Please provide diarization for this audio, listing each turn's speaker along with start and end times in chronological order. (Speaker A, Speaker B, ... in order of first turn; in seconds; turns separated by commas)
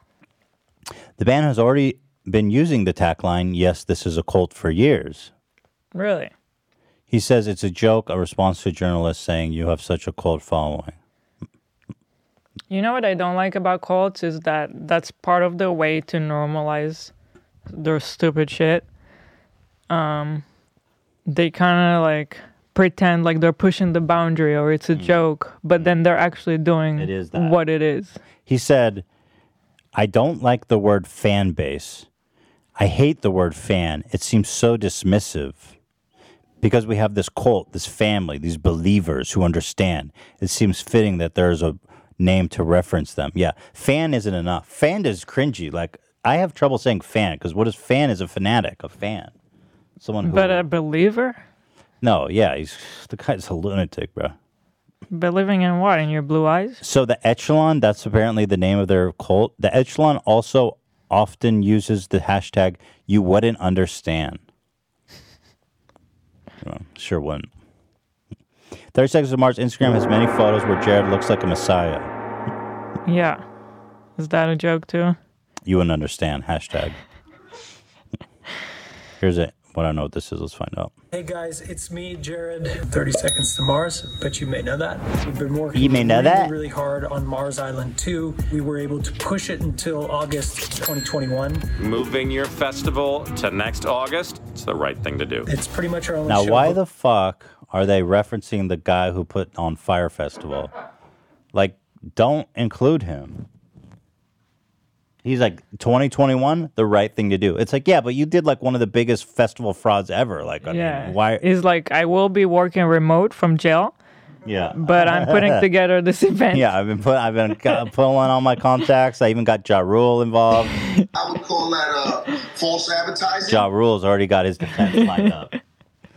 Speaker A: 1.2-5.3, Speaker B: 5.9-6.3, Speaker A: 7.1-10.9, Speaker B: 12.7-17.1, Speaker B: 17.7-18.8, Speaker B: 19.9-20.4, Speaker B: 21.3-28.2, Speaker A: 24.9-25.2, Speaker A: 26.9-27.6, Speaker A: 28.4-29.0, Speaker A: 29.9-32.1, Speaker A: 32.8-35.7, Speaker A: 36.6-49.3, Speaker A: 50.0-50.6, Speaker B: 50.2-51.4, Speaker A: 52.0-54.4, Speaker B: 55.1-56.8, Speaker A: 56.8-64.4, Speaker A: 66.6-67.5, Speaker A: 68.9-72.1, Speaker B: 73.0-73.4, Speaker B: 74.2-75.2, Speaker A: 75.6-77.0, Speaker A: 79.2-80.9, Speaker C: 81.1-91.6, Speaker A: 85.7-86.5, Speaker D: 91.8-95.5, Speaker C: 95.5-96.8, Speaker A: 96.3-100.7, Speaker A: 101.5-103.4, Speaker A: 105.2-111.4, Speaker B: 110.7-113.9, Speaker A: 114.5-115.7, Speaker B: 114.8-116.7, Speaker A: 116.5-120.8, Speaker E: 121.1-123.7, Speaker A: 123.5-125.5